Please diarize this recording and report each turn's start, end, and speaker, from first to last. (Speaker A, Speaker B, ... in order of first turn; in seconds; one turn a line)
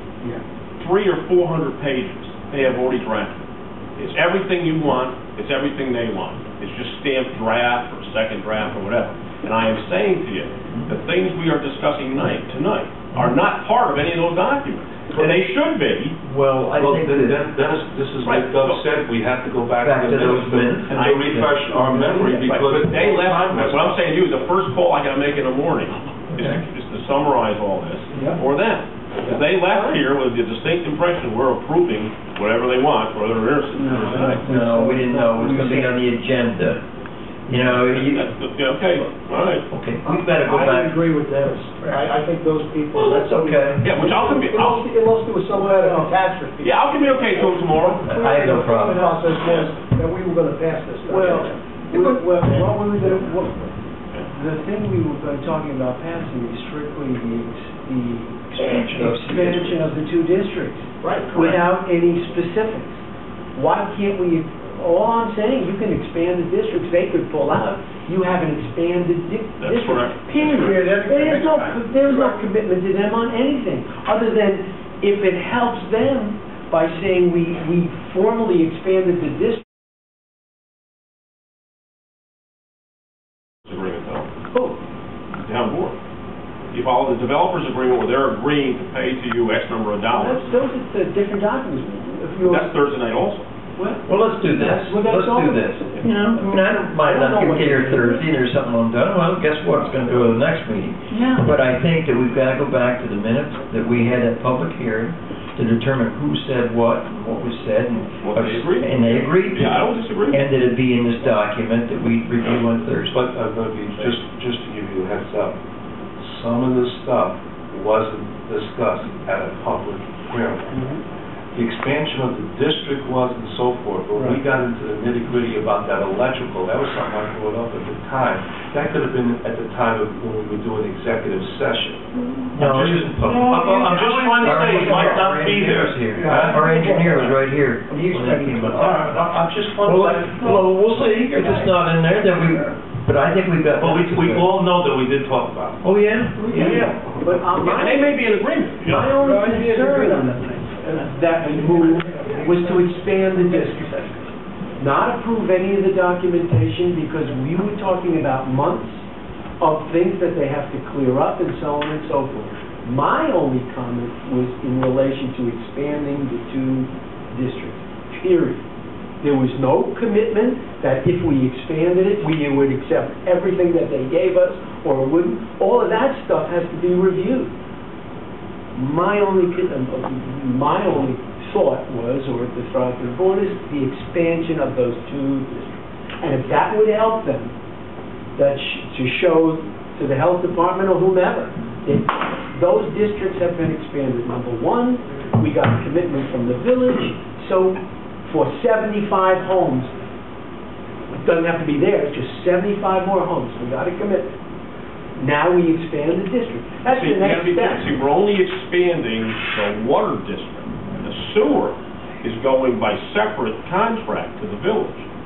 Speaker A: 0.8-3.4
Speaker A: 4.0-16.2
Speaker B: 16.2-17.4
Speaker C: 16.7-24.1
Speaker A: 18.2-18.9
Speaker B: 19.8-21.5
Speaker A: 20.9-21.6
Speaker D: 21.8-22.5
Speaker A: 22.3-34.4
Speaker B: 26.3-26.6
Speaker D: 28.1-28.4
Speaker D: 29.2-30.0
Speaker D: 33.7-36.0
Speaker B: 34.4-36.8
Speaker B: 37.5-38.3
Speaker A: 37.5-39.7
Speaker B: 39.7-41.0
Speaker E: 40.0-53.3
Speaker B: 42.9-43.9
Speaker A: 43.8-44.9
Speaker D: 45.7-46.2
Speaker A: 46.6-48.4
Speaker B: 48.0-49.2
Speaker A: 49.3-49.8
Speaker D: 51.0-53.7
Speaker D: 54.3-63.0
Speaker B: 58.6-59.9
Speaker E: 61.0-61.3
Speaker A: 61.2-61.6
Speaker D: 63.5-79.6
Speaker A: 69.6-70.8
Speaker E: 70.5-72.4
Speaker A: 83.7-84.3
Speaker D: 84.5-84.8
Speaker A: 85.4-86.0
Speaker A: 86.7-90.4
Speaker D: 90.1-92.7
Speaker A: 92.4-93.5
Speaker D: 93.8-98.3
Speaker B: 94.0-113.2
Speaker A: 108.2-110.5
Speaker C: 113.1-115.6
Speaker C: 116.2-120.7
Speaker D: 120.7-121.0
Speaker C: 121.5-132.0
Speaker B: 132.5-139.1
Speaker C: 132.5-136.7
Speaker D: 136.3-137.3
Speaker C: 138.6-140.6
Speaker B: 139.8-144.6
Speaker C: 143.7-145.8
Speaker B: 145.8-146.8
Speaker D: 146.5-148.2
Speaker A: 147.6-149.1
Speaker D: 148.8-154.0
Speaker E: 149.1-154.3
Speaker D: 154.8-159.0
Speaker D: 159.6-168.6
Speaker D: 169.2-177.5
Speaker D: 178.7-187.5
Speaker D: 188.3-199.9
Speaker D: 201.1-204.3
Speaker D: 205.2-208.0
Speaker A: 206.9-215.1